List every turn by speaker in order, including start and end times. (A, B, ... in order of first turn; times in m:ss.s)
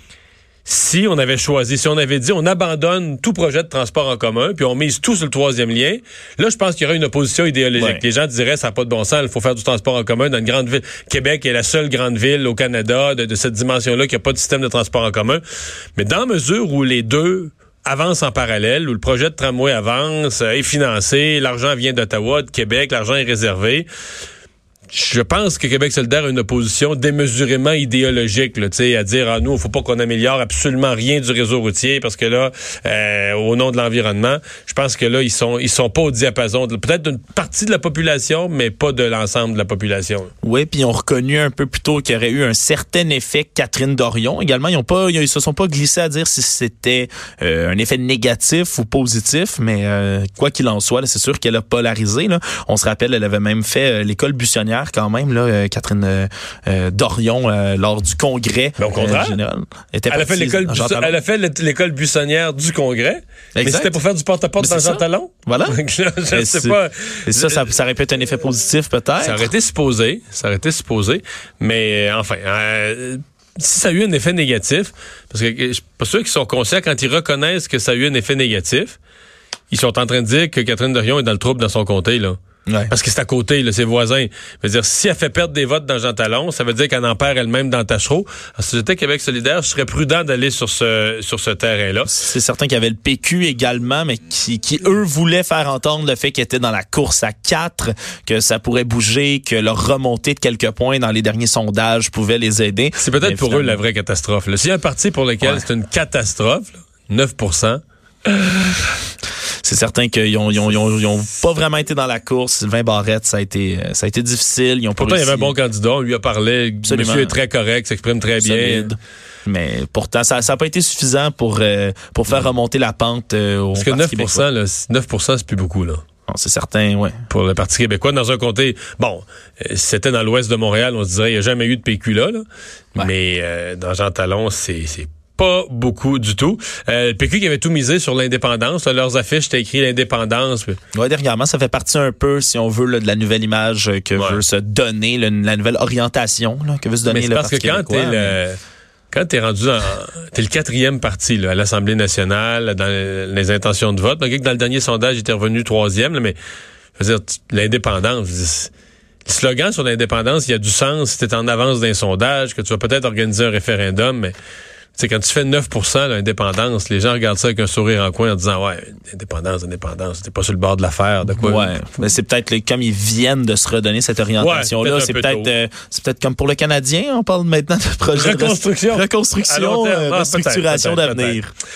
0:00.6-0:15.4 A
0:07.8-0:08.0 B
0:16.0-0:23.9 A
0:24.9-0:40.3 A
0:40.4-1:01.2 B
0:58.8-0:59.4 A
1:00.1-1:07.8 A
1:03.6-1:04.0 B
1:04.6-1:09.5 B
1:09.2-1:19.0 A
1:19.7-1:22.4 A
1:22.7-1:22.9 B
1:22.9-1:32.1 A
1:32.1-1:43.8 B
1:43.0-1:49.0 A
1:45.4-1:45.7 B
1:49.6-1:55.6 B
1:55.0-1:58.9 A
1:56.8-1:57.4 B
1:58.4-2:04.5 B
2:03.8-2:06.0 A
2:06.3-2:07.2 B
2:07.3-2:20.8 A
2:20.9-2:28.4 B
2:24.2-2:24.4 A
2:27.1-2:28.6 A
2:29.1-2:36.4 A
2:37.0-2:38.7 A
2:39.2-2:44.3 A
2:45.0-2:51.8 A
2:51.3-3:01.5 B
2:54.4-2:55.5 A
2:58.2-3:01.4 A